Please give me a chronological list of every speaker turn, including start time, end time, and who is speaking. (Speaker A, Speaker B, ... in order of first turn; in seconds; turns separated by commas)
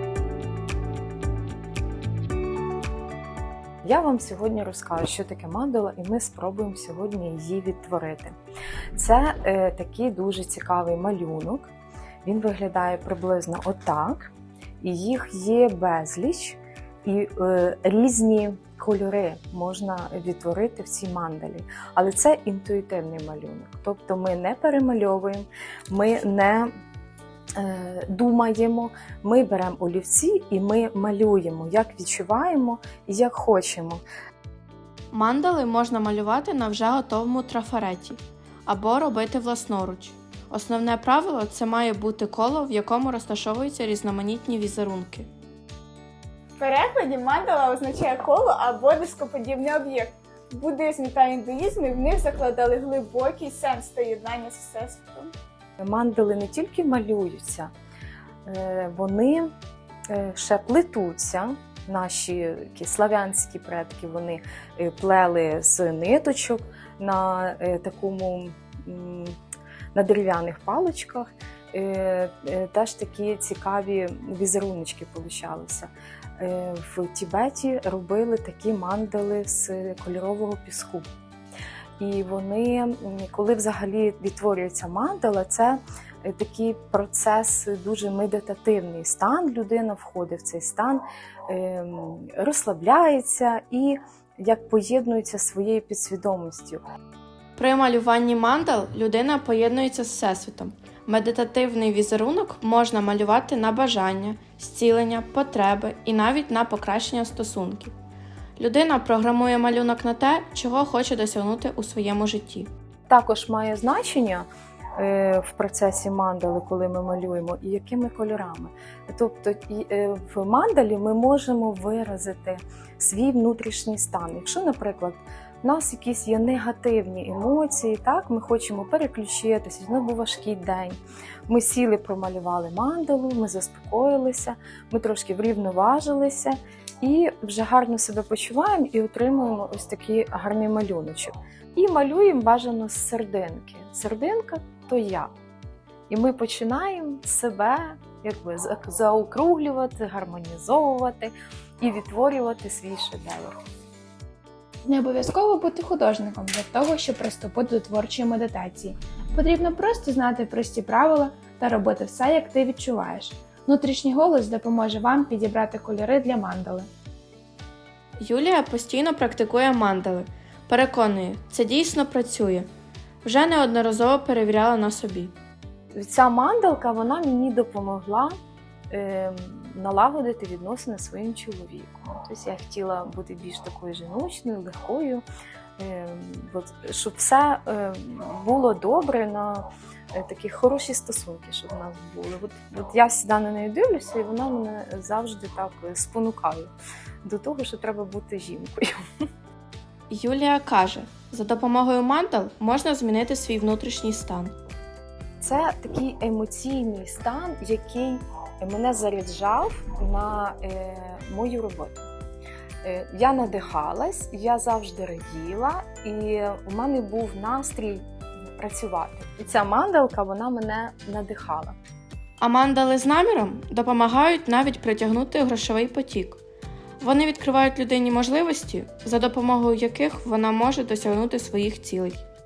Speaker A: 3.8-8.3, Speaker A: 8.9-11.7, Speaker A: 12.2-26.7, Speaker A: 27.6-34.0, Speaker B: 35.1-45.3, Speaker C: 46.6-55.3, Speaker A: 55.8-57.7, Speaker A: 58.4-59.5, Speaker A: 60.1-69.4, Speaker A: 69.9-81.1, Speaker A: 82.0-96.8, Speaker B: 97.5-107.9, Speaker B: 108.6-112.7, Speaker A: 113.1-145.3, Speaker A: 146.1-153.6, Speaker D: 154.8-166.9, Speaker B: 168.2-172.7, Speaker B: 173.2-175.3, Speaker A: 175.9-178.3, Speaker A: 178.9-185.2, Speaker A: 185.8-196.7, Speaker A: 197.2-198.9, Speaker B: 200.1-204.5, Speaker A: 205.4-212.1, Speaker A: 212.8-221.8, Speaker B: 222.4-226.4, Speaker B: 227.0-232.2